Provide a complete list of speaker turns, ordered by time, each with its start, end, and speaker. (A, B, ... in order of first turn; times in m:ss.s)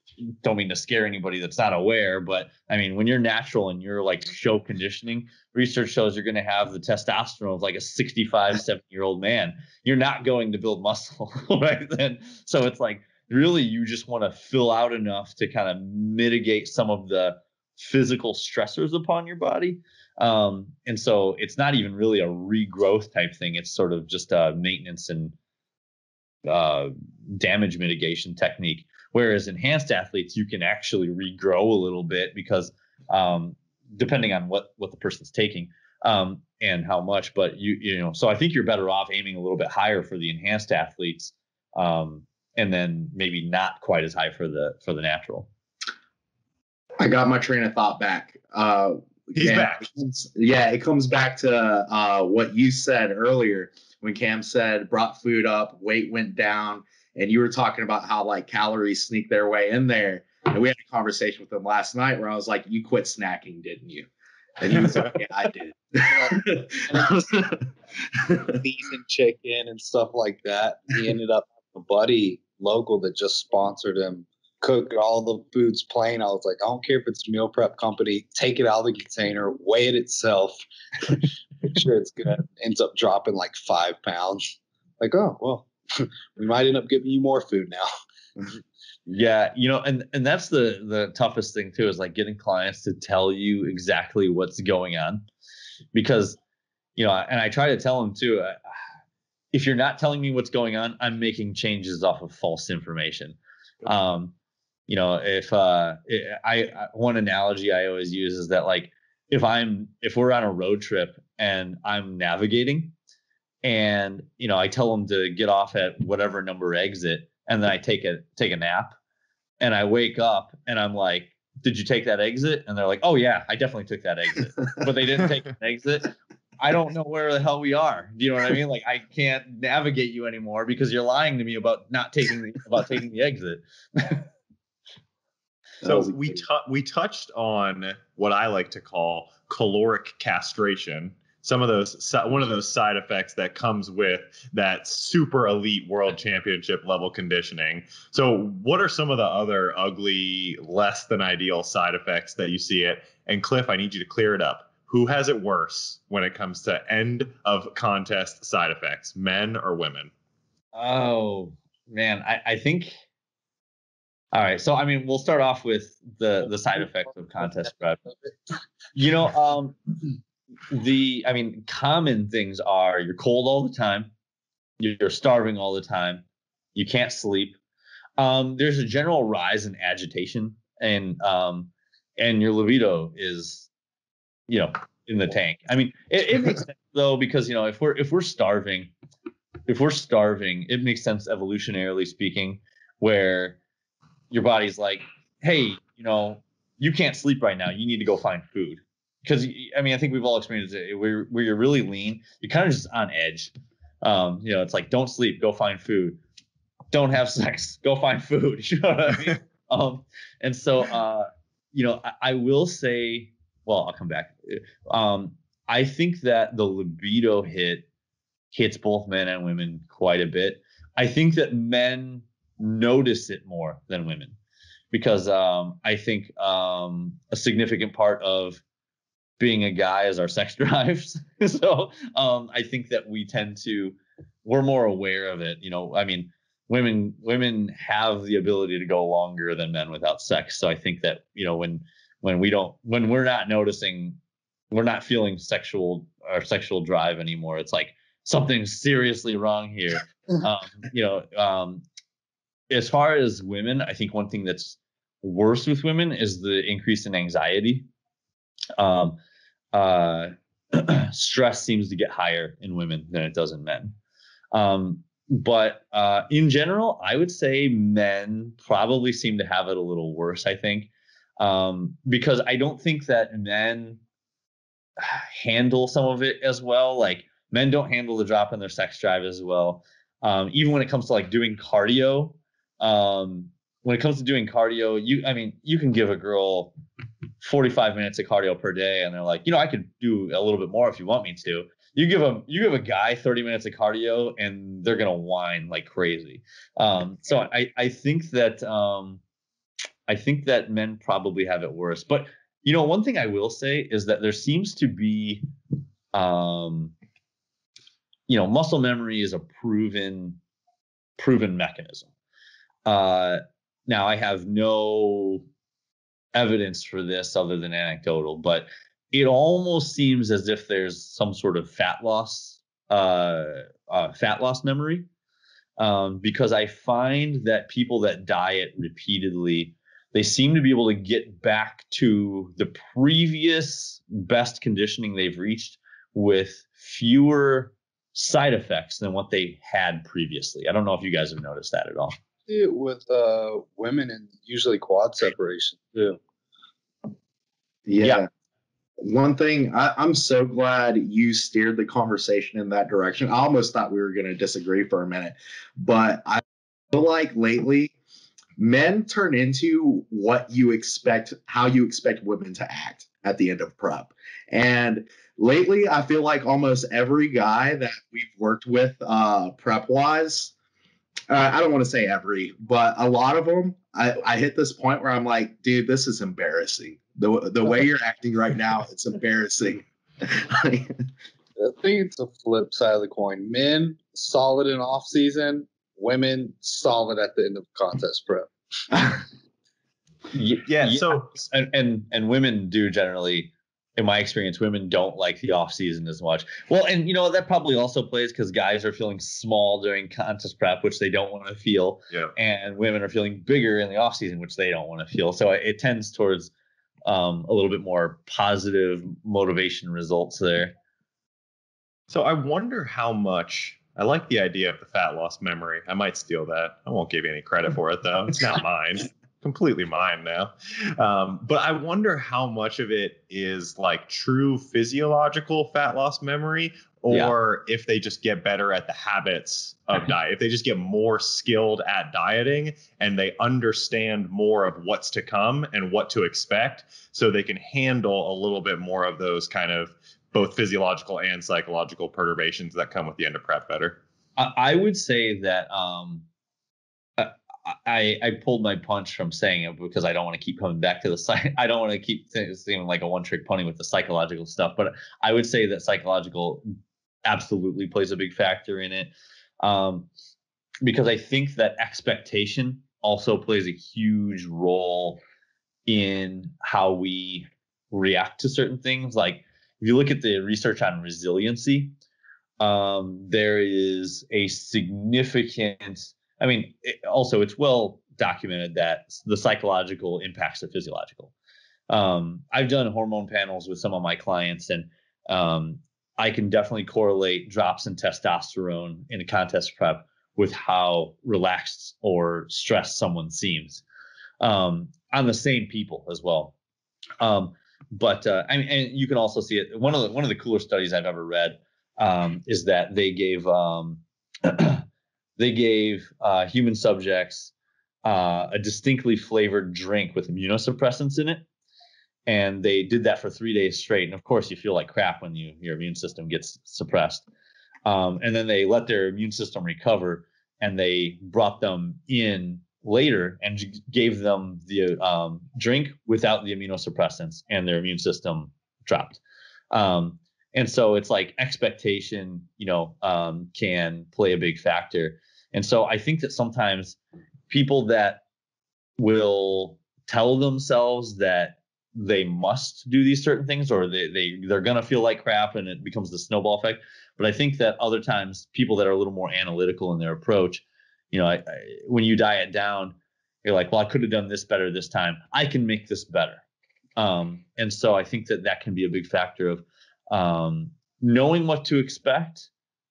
0:00.4-0:25.3 A
0:26.4-0:45.5 A
0:47.0-1:04.1 B
0:49.3-0:49.9 C
1:04.6-1:07.6 B
1:04.8-1:05.1 C
1:06.0-1:07.2 D
1:08.2-1:08.5 B
1:08.5-1:27.9 D
1:29.1-1:35.2 A
1:35.9-1:36.4 A
1:37.0-1:38.6 A
1:39.5-1:44.3 A
1:44.9-1:52.9 A
1:53.6-1:59.0 A
1:59.6-2:14.2 A
2:15.8-2:16.4 B
2:15.8-2:40.1 C
2:40.7-2:42.9 A
2:44.3-2:48.0 A
2:48.9-2:50.1 A
2:50.7-2:54.1 A
2:54.8-2:56.2 A
2:56.7-2:57.6 A
2:58.2-3:03.7 A
3:04.5-3:08.9 A
3:09.7-3:13.6 A
3:14.3-3:26.2 A
3:26.9-3:37.8 A
3:38.5-3:44.4 A
3:44.9-3:48.6 A
3:49.4-4:04.2 A
4:04.7-4:11.8 A
4:12.7-4:17.8 A
4:18.8-4:19.2 A
4:19.7-4:23.9 A
4:24.5-4:34.0 A
4:35.0-4:46.7 A
4:47.4-4:59.2 A
5:00.1-5:05.4 A
5:06.1-5:06.9 A
5:08.3-5:10.4 A
5:11.2-5:12.1 A
5:12.8-5:15.4 A
5:16.3-5:25.1 A
5:25.8-5:42.1 A
5:42.5-5:46.2 D
5:47.9-5:48.3 B
5:49.0-5:57.9 B
5:58.6-6:10.5 B
6:11.3-6:21.0 B
6:21.6-6:28.5 D
6:30.3-6:46.5 A
6:30.6-6:31.4 C
6:47.0-6:50.7 A
6:52.1-7:24.0 C
7:07.1-7:07.3 A
7:24.4-7:26.2 A
7:27.2-7:36.6 A
7:37.2-7:39.1 A
7:39.6-7:40.1 A
7:40.8-7:45.2 A
7:45.9-7:51.9 A
7:52.6-8:01.3 A
8:01.9-8:13.8 A
8:14.4-8:16.5 A
8:17.2-8:24.8 A
8:25.4-8:27.5 A
8:28.0-8:31.4 A
8:32.3-8:37.2 A
8:37.8-8:57.0 A
8:57.5-8:58.2 A
8:59.0-9:12.9 A
9:13.4-9:16.4 A
9:17.0-9:22.5 A